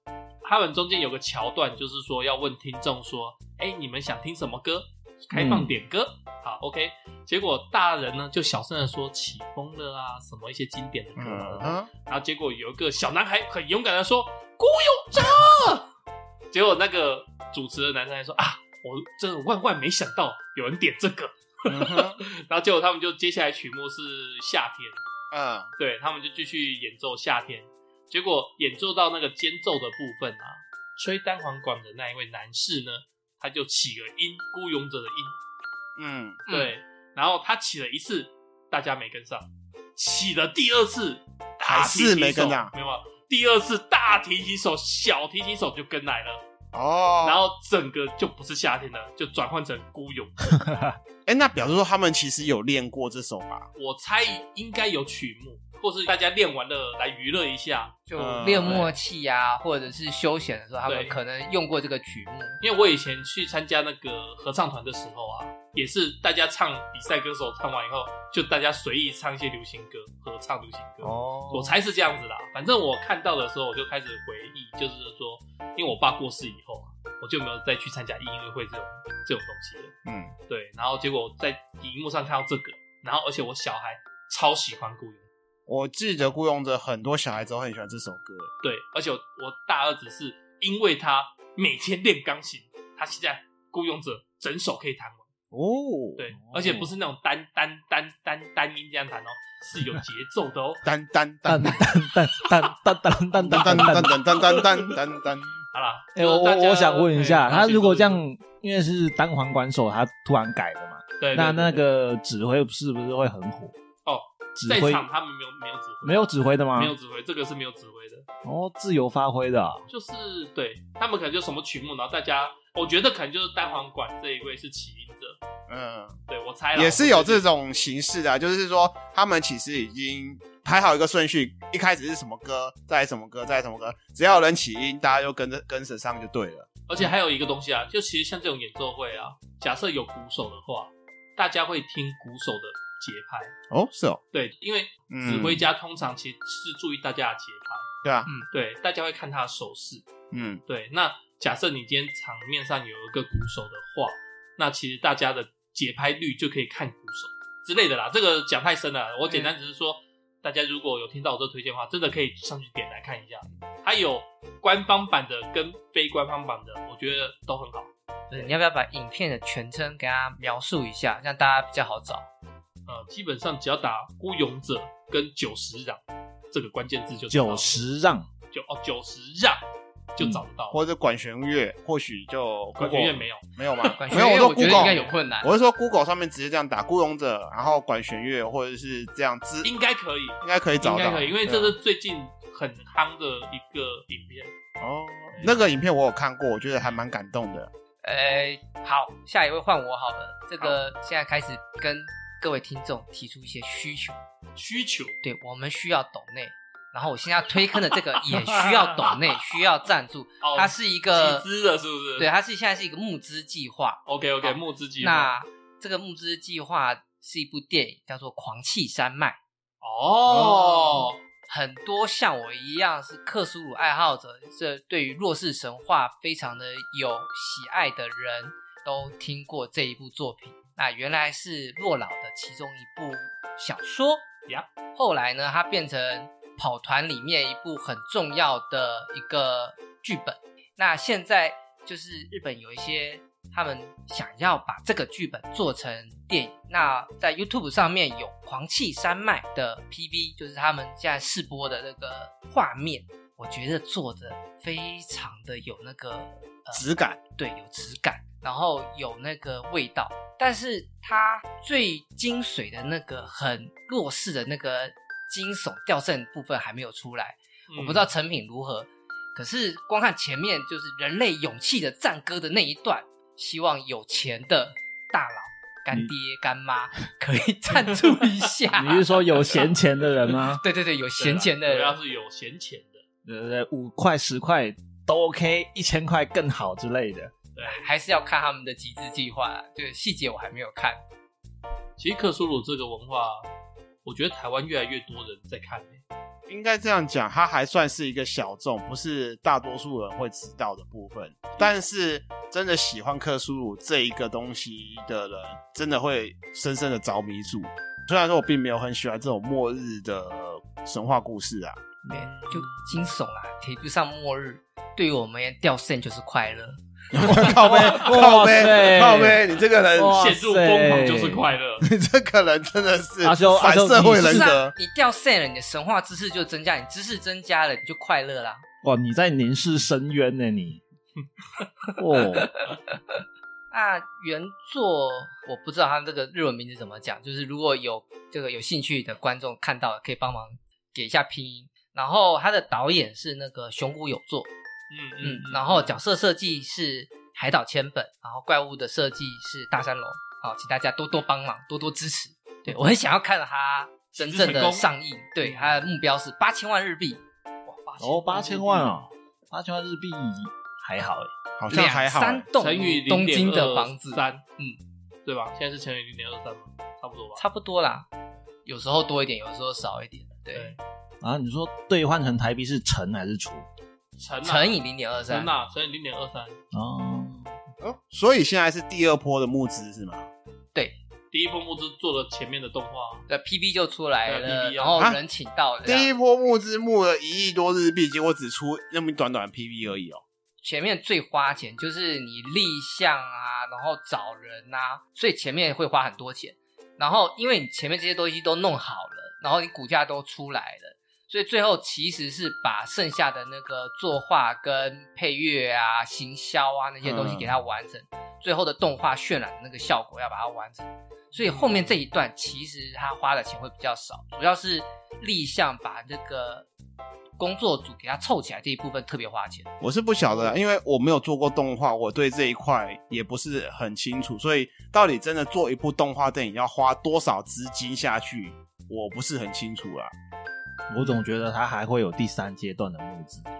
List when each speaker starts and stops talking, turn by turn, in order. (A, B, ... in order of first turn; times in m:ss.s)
0:00.4-0:15.9 A
0:05.3-0:05.7 B
0:11.2-0:11.9 C
0:16.5-0:25.0 A
0:21.7-0:22.2 C
0:25.3-0:25.7 C
0:25.8-0:35.4 A
0:36.0-0:36.4 C
0:36.5-0:36.7 D
0:36.5-0:46.4 A
0:41.6-0:42.7 C
0:46.7-0:47.4 C
0:47.2-0:50.6 A
0:50.5-0:51.0 B
0:51.3-0:53.7 C
0:53.8-0:58.0 A
0:58.1-1:02.6 D
0:58.2-0:58.9 C
1:00.9-1:01.2 A
1:02.6-1:20.0 A
1:11.0-1:11.8 C
1:20.1-1:20.3 C
1:20.5-1:25.3 A
1:25.7-1:28.5 C
1:28.6-1:35.3 A
1:35.5-1:36.2 C
1:36.2-1:40.8 A
1:36.4-1:36.9 B
1:40.8-1:41.9 C
1:41.5-1:44.4 B
1:43.4-1:45.6 C
1:43.5-1:45.0 A
1:45.7-1:48.2 A
1:46.2-1:53.8 B
1:51.2-1:51.8 A
1:54.1-1:58.3 A
1:54.6-1:55.1 B
1:56.0-1:57.0 B
1:58.4-1:59.9 B
1:59.9-2:05.4 A
2:05.7-2:06.2 C
2:06.3-2:07.5 A
2:06.8-2:17.1 C
2:16.9-2:23.5 A
2:23.7-2:24.2 C
2:24.3-2:27.9 A
2:25.1-2:25.6 C
2:28.0-2:28.3 C
2:28.5-2:30.0 A
2:30.3-2:30.6 C
2:30.7-2:47.9 A
2:48.3-2:52.2 D
2:52.9-2:56.0 A
2:56.5-2:57.8 A
2:57.3-2:58.3 B
2:58.5-2:59.6 A
3:00.2-3:00.8 A
3:00.7-3:09.7 C
3:02.8-3:05.1 A
3:04.0-3:05.5 D
3:09.6-3:14.5 A
3:10.4-3:11.8 C
3:14.8-3:17.7 C
3:18.0-3:24.2 D
3:24.6-3:25.2 A
3:25.2-3:31.4 D
3:28.3-3:29.4 A
3:30.4-3:32.3 A
3:32.2-3:39.4 D
3:34.1-3:35.4 A
3:39.8-3:41.2 A
3:40.3-3:41.1 C
3:41.5-3:54.3 D
3:55.0-4:16.9 D
4:16.7-4:17.2 C
4:17.4-4:39.6 D
4:27.7-4:28.1 A
4:37.8-4:38.3 A
4:38.7-4:40.6 B
4:39.5-4:39.7 A
4:40.6-4:42.0 D
4:41.2-4:43.0 A
4:43.2-4:47.3 B
4:47.6-4:47.8 A
4:47.7-4:51.0 D
4:52.0-4:53.5 A
4:54.0-4:56.0 A
4:56.5-5:11.8 C
5:12.1-5:17.7 D
5:12.2-5:12.9 A
5:17.1-5:20.3 C
5:17.3-5:21.5 B
5:20.1-5:21.9 A
5:21.8-5:24.7 C
5:23.2-5:24.6 B
5:24.2-5:28.6 D
5:28.8-5:30.8 B
5:32.0-5:32.5 B
5:33.7-5:44.5 D
5:44.9-5:46.0 A
5:45.2-5:57.2 D
5:54.2-5:54.9 A
5:55.4-5:55.9 A
5:57.6-5:59.1 A
5:58.0-6:01.3 B
6:01.6-6:02.5 C
6:01.7-6:04.8 D
6:02.6-6:04.4 A
6:05.2-6:07.4 A
6:07.4-6:08.1 D
6:08.6-6:10.8 D
6:10.5-6:10.8 A
6:11.2-6:13.7 B
6:14.2-6:16.6 A
6:14.4-6:15.5 D
6:16.7-6:17.5 B
6:17.8-6:20.3 C
6:21.3-6:23.3 A
6:23.3-6:26.1 D
6:24.3-6:25.0 A
6:25.8-6:30.2 C
6:30.6-6:56.7 D
6:47.0-6:47.5 C
6:51.3-6:52.0 A
6:57.4-6:59.7 D
6:59.8-7:10.1 C
7:10.9-7:13.5 B